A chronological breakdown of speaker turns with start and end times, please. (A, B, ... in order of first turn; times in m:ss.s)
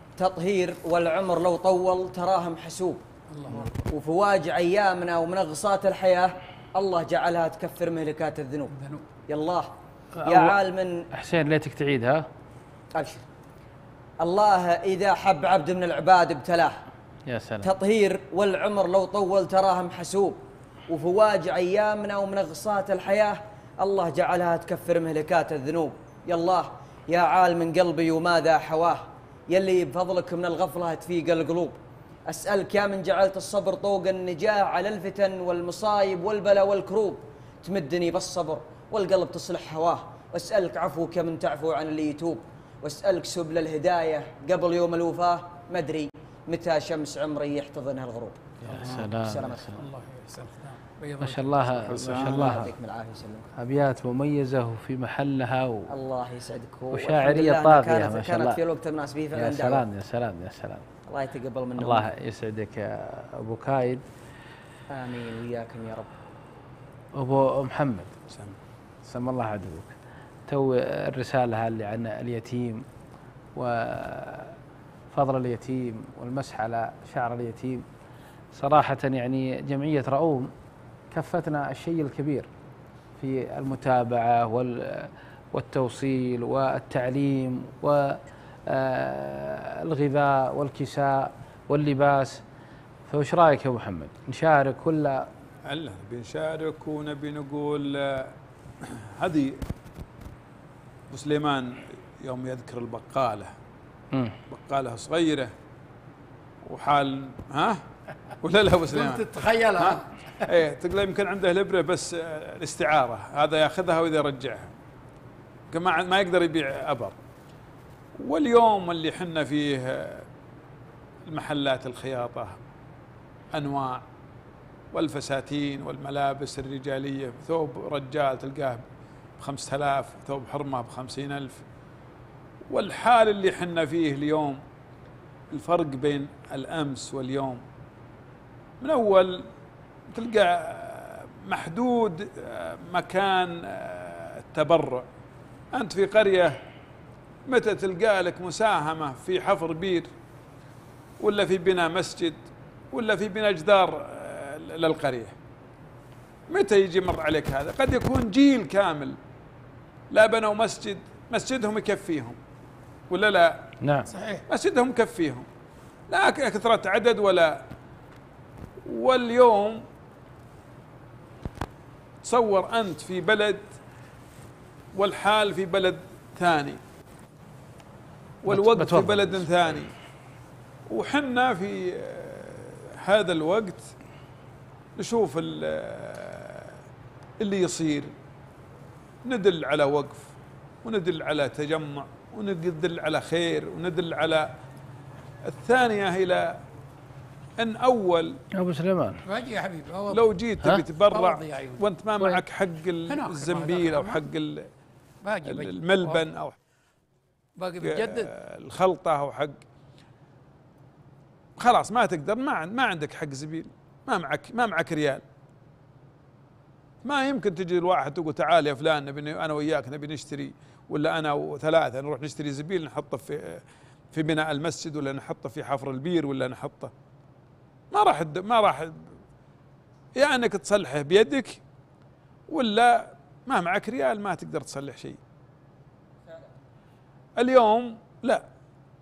0:00.2-0:03.0 A
0:03.3-0:03.8 B
0:03.6-0:08.7 A
0:08.7-0:09.2 B
0:09.3-0:09.7 A
0:10.2-0:10.6 C
0:10.2-0:11.0 A
0:11.1-0:12.3 C
0:12.9-0:13.2 A
0:14.2-0:16.8 A
0:17.3-0:17.7 C
0:17.6-0:48.4 A
0:48.6-0:49.8 C
0:48.7-0:49.1 B
0:49.0-0:49.7 A
0:49.7-0:52.1 B
0:51.2-0:52.7 C
0:51.9-0:52.5 D
0:52.1-0:53.5 A
0:53.6-0:55.9 C
0:55.9-0:59.8 A
0:56.9-0:58.6 C
0:59.3-1:00.9 C
1:01.1-1:02.1 A
1:01.8-1:04.0 C
1:04.9-1:06.1 A
1:07.2-1:08.2 C
1:08.3-1:08.6 D
1:09.0-1:10.0 C
1:10.5-1:12.8 C
1:13.6-1:14.6 C
1:15.1-1:17.8 C
1:18.5-1:20.5 C
1:21.1-1:22.5 C
1:23.2-1:32.4 C
1:33.1-1:35.3 C
1:35.7-1:39.6 D
1:41.1-1:43.5 D
1:44.1-1:44.4 C
1:44.5-1:45.5 D
1:46.6-1:47.8 D
1:48.4-1:49.2 D
1:48.9-1:50.5 B
1:49.8-1:54.8 D
1:55.7-1:57.2 D
1:58.2-2:00.3 D
2:01.3-2:02.6 D
2:03.5-2:04.0 D
2:04.9-2:08.8 D
2:09.4-2:11.7 D
2:12.7-2:14.6 D
2:15.5-2:17.6 D
2:18.8-2:19.5 D
2:20.1-2:25.1 D
2:25.7-2:26.6 D
2:27.5-2:30.1 D
2:31.2-2:35.4 D
2:36.5-2:39.2 D
2:40.1-2:42.4 D
2:43.1-2:43.7 D
2:43.8-2:44.1 C
2:44.1-2:44.4 B
2:44.5-2:45.5 D
2:46.1-2:47.6 D
2:48.9-2:49.8 D
2:52.2-2:53.8 D
2:54.9-2:56.8 D
2:58.4-2:59.9 D
2:58.5-2:59.5 C
3:00.9-3:04.0 D
3:05.0-3:06.8 D
3:07.4-3:08.1 D
3:09.2-3:10.3 D
3:10.8-3:14.5 D
3:15.5-3:16.6 D
3:17.6-3:18.4 D
3:18.5-3:19.2 C
3:19.3-3:20.3 B
3:20.1-3:24.7 D
3:21.1-3:21.8 B
3:23.1-3:24.2 B
3:25.2-3:26.2 B
3:25.5-3:26.6 D
3:27.6-3:28.3 B
3:27.8-3:29.6 D
3:31.6-3:35.2 D
3:37.0-3:46.9 D
3:47.9-3:49.1 D
3:50.2-3:51.6 D
3:52.5-3:55.2 D
3:57.4-3:58.4 D